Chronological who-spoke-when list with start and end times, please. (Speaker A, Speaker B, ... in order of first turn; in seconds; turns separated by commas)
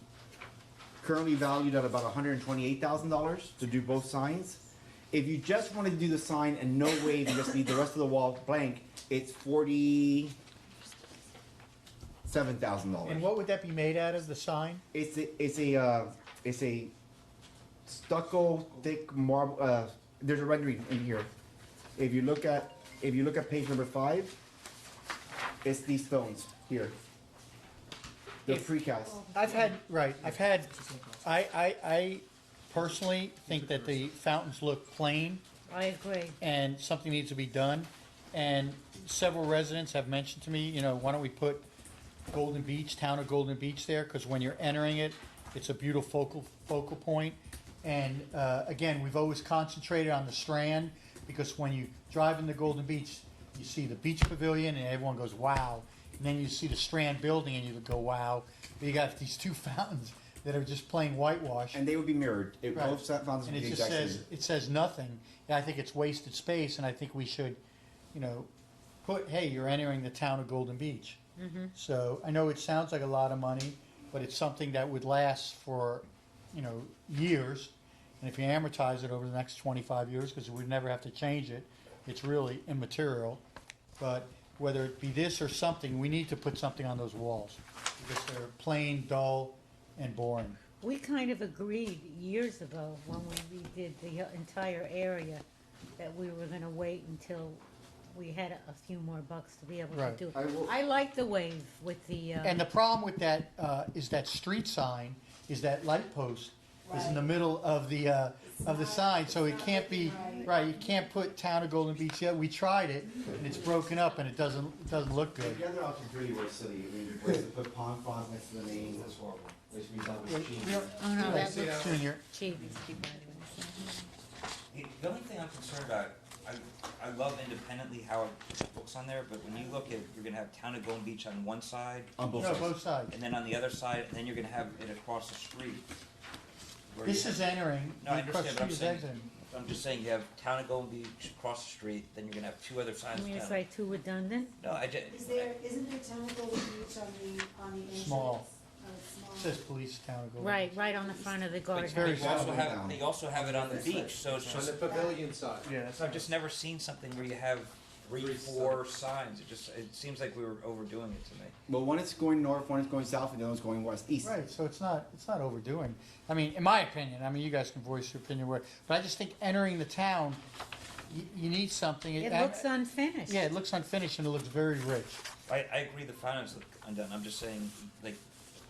Speaker A: 1.0-10.4, Speaker A: 12.2-13.3, Speaker B: 13.0-14.8, Speaker A: 14.9-16.9, Speaker A: 17.9-21.3, Speaker A: 22.0-24.4, Speaker A: 25.6-26.9, Speaker A: 28.4-29.2, Speaker B: 29.2-35.4, Speaker C: 35.7-36.4, Speaker B: 36.4-41.6, Speaker B: 42.3-61.8, Speaker A: 61.7-64.2, Speaker B: 62.7-67.6, Speaker B: 68.1-68.5, Speaker B: 69.0-71.2, Speaker C: 71.4-71.7, Speaker B: 71.7-83.4, Speaker B: 84.0-90.6, Speaker C: 90.8-95.4, Speaker C: 96.0-102.6, Speaker B: 99.9-100.2, Speaker A: 100.3-100.7, Speaker B: 102.4-115.6, Speaker D: 106.9-107.2, Speaker D: 108.6-110.7, Speaker A: 115.3-119.2, Speaker E: 118.7-119.5, Speaker A: 119.7-120.9, Speaker B: 120.2-122.2, Speaker C: 121.0-124.1, Speaker F: 121.3-122.0, Speaker E: 124.7-132.3, Speaker A: 132.2-132.7, Speaker B: 132.3-133.1, Speaker E: 133.1-135.9, Speaker E: 136.9-137.4, Speaker B: 137.0-139.3, Speaker E: 138.0-143.6, Speaker C: 143.1-144.6, Speaker E: 144.6-145.6, Speaker D: 145.1-149.6, Speaker B: 147.9-148.4, Speaker B: 149.3-150.7, Speaker C: 150.4-152.2, Speaker D: 151.0-151.3, Speaker E: 151.7-154.8, Speaker B: 151.8-152.7, Speaker A: 152.0-153.1, Speaker F: 153.3-155.8, Speaker D: 154.8-155.2, Speaker B: 155.7-156.1, Speaker E: 155.8-161.5, Speaker F: 158.2-158.8, Speaker A: 161.7-164.3, Speaker B: 164.2-170.4, Speaker B: 171.1-172.7, Speaker C: 172.2-173.4, Speaker B: 173.2-175.2, Speaker E: 175.5-178.2